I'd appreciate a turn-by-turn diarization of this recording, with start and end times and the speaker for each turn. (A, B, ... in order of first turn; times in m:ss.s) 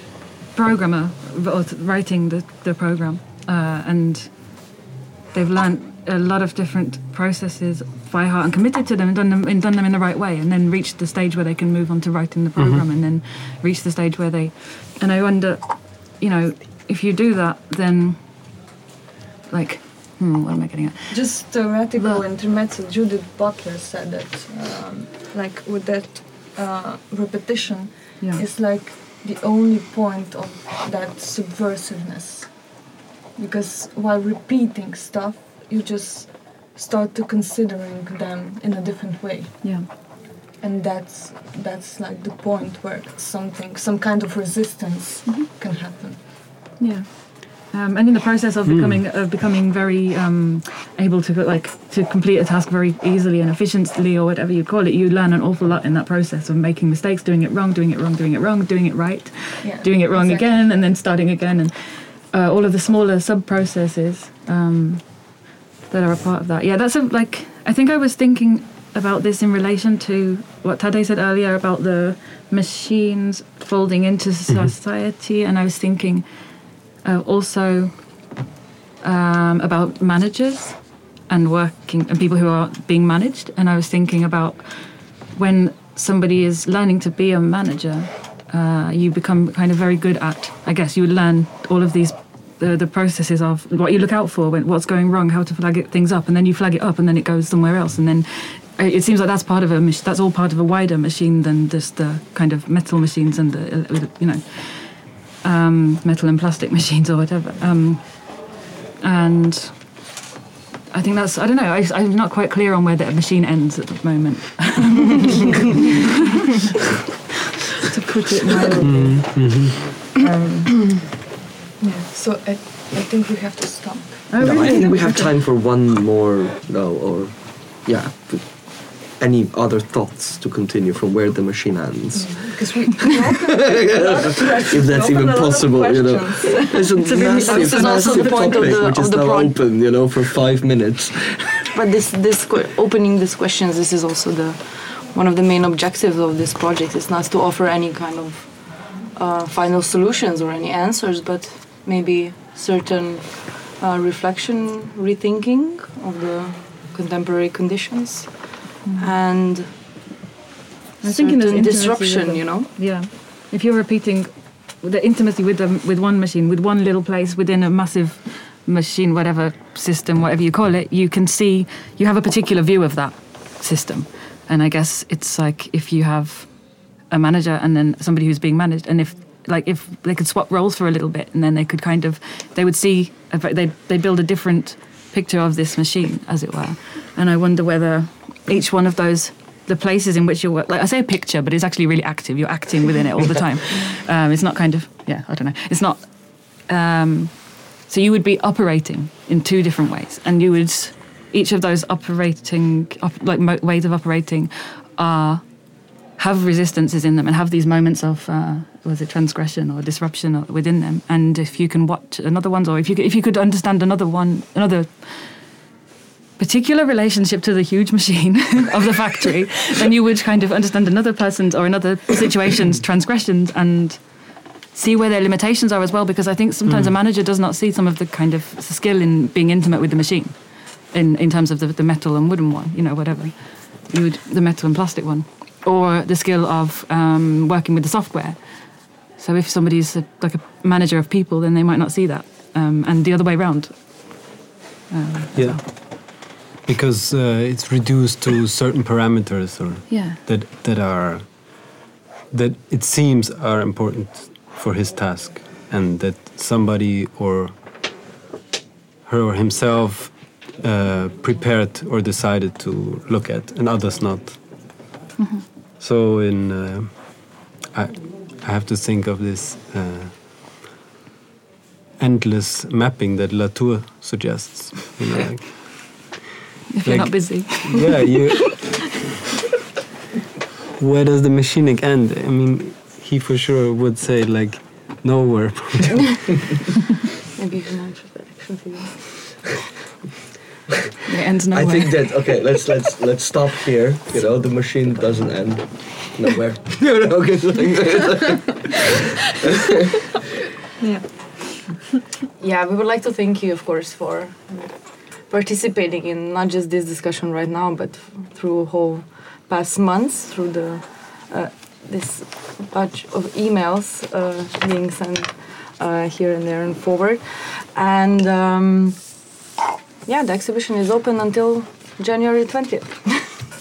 0:00.5-0:04.7 A
0:05.3-0:18.7 A
0:12.6-0:12.8 B
0:19.5-0:22.2 A
0:21.1-0:32.8 C
0:33.3-0:40.0 C
0:40.6-0:46.2 C
0:46.8-1:18.3 A
0:48.6-0:49.0 B
0:59.6-1:01.0 C
1:19.0-1:50.0 A
1:50.9-1:55.9 A
1:57.9-1:59.2 A
1:58.7-1:59.4 D
1:58.8-1:59.9 B
2:00.2-2:00.8 D
2:01.8-2:04.4 C
2:04.3-2:05.4 A
2:04.4-2:21.6 E
2:12.2-2:18.7 C
2:15.0-2:19.7 D
2:17.0-2:18.8 A
2:21.7-2:39.7 D
2:38.8-2:39.1 A
2:41.0-2:42.7 D
2:41.0-3:35.6 A
3:36.4-4:04.2 A
3:46.6-3:46.9 B
4:04.9-4:05.6 A
4:05.3-4:11.7 B
4:09.9-4:10.2 A
4:12.3-4:17.5 B
4:19.0-4:24.8 B
4:25.2-4:25.4 A
4:25.8-4:30.4 B
4:32.0-4:36.2 B
4:36.7-4:38.0 A
4:36.8-4:38.9 B
4:40.8-4:46.3 B
4:47.4-4:49.4 D
4:51.0-4:52.2 A
4:51.5-4:58.9 E
5:00.8-5:01.4 D
5:02.4-5:19.1 D
5:20.0-5:23.4 D